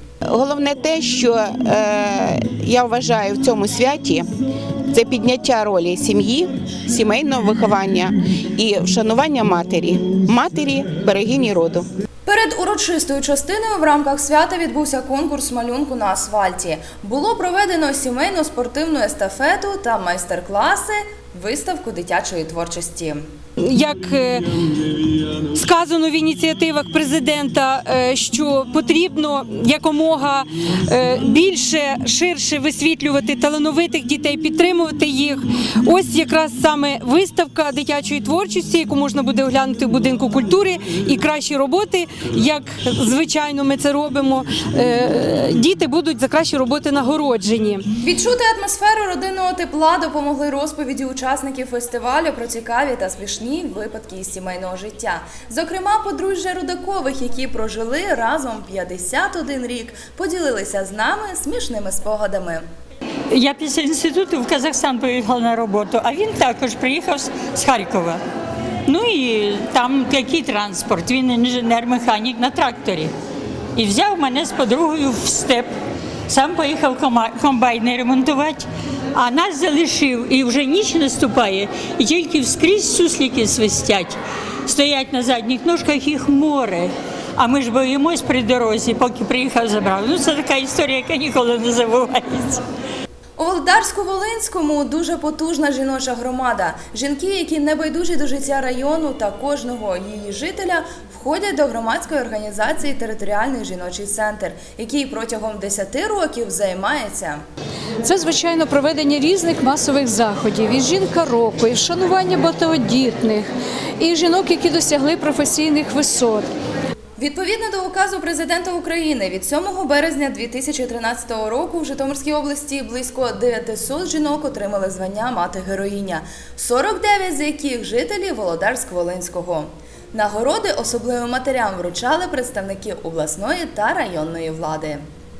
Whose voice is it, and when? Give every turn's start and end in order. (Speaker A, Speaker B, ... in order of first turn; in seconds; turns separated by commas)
Speaker A: 0.3-4.2, Speaker A: 4.9-11.8, Speaker B: 12.2-23.2, Speaker C: 23.6-24.5, Speaker C: 25.4-47.8, Speaker B: 48.0-62.6, Speaker D: 63.3-68.2, Speaker D: 68.8-73.1, Speaker D: 73.7-75.7, Speaker D: 76.3-92.6, Speaker B: 93.4-107.4, Speaker E: 108.0-113.5, Speaker E: 114.0-116.5, Speaker B: 117.2-135.0